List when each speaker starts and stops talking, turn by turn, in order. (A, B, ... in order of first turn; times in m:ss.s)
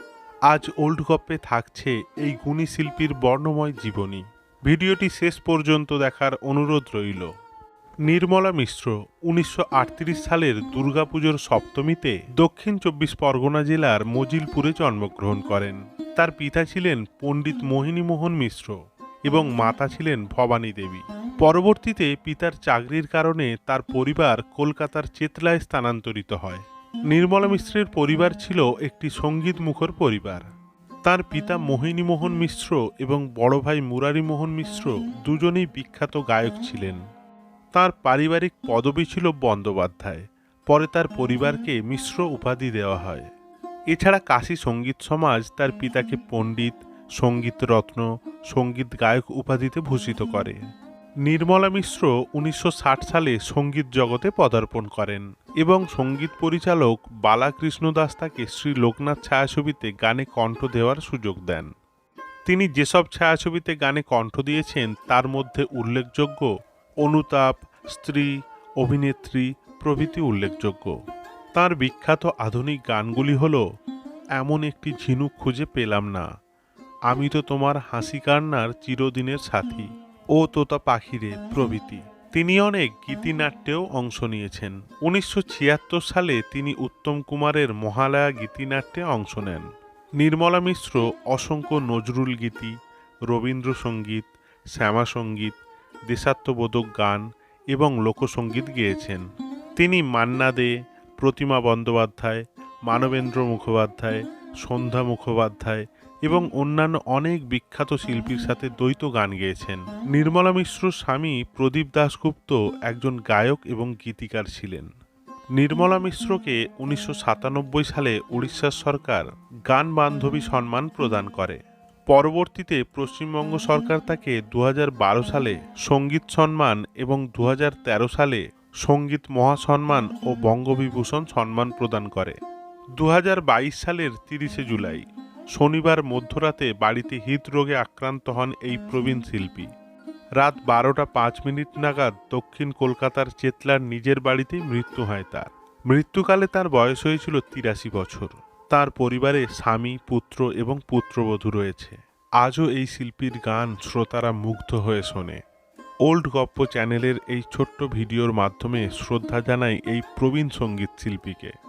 0:00.5-0:07.3 A
0:08.1-0:30.5 A
0:31.1-0:37.0 A
0:37.8-0:43.3 A
0:43.9-0:50.6 A
0:51.3-1:01.7 A
1:02.5-1:06.5 A
1:07.0-1:10.9 A
1:11.6-1:13.6 A
1:14.4-1:16.3 A
1:17.1-1:29.7 A
1:30.2-1:32.7 A
1:33.3-1:35.5 A
1:36.1-1:39.2 A
1:39.8-1:54.9 A
1:55.6-2:01.6 A
2:02.1-2:12.4 A
2:13.0-2:15.0 A
2:15.6-2:19.7 A
2:20.4-2:35.4 A
2:36.0-2:41.5 A